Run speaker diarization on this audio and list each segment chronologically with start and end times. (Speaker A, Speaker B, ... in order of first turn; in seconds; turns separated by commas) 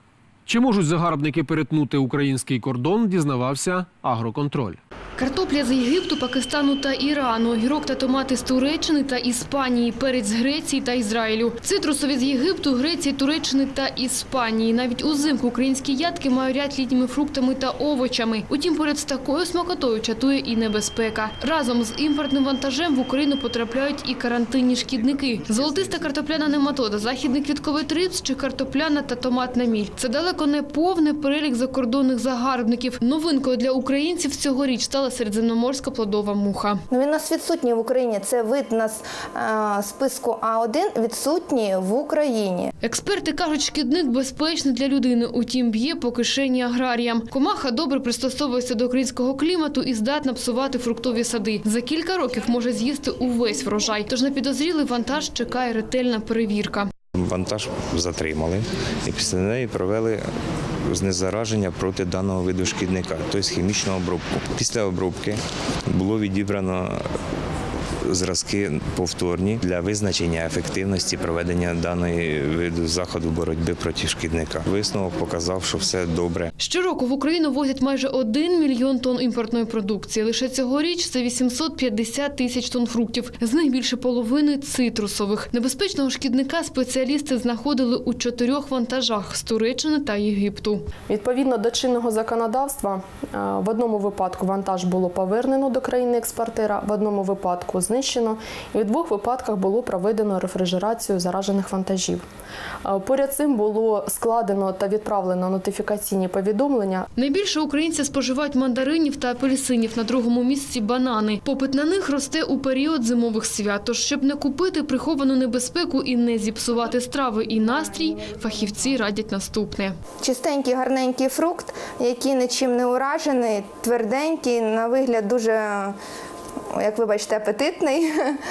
Speaker A: 0.5-4.8, Speaker B: 5.2-36.8, Speaker C: 36.9-42.7, Speaker B: 42.8-56.9, Speaker D: 57.2-60.2, Speaker D: 60.9-65.4, Speaker D: 65.9-67.0, Speaker D: 68.1-76.5, Speaker B: 76.6-90.8, Speaker E: 91.1-102.2, Speaker E: 102.8-107.1, Speaker B: 107.2-120.0, Speaker C: 120.2-126.0, Speaker C: 126.7-128.4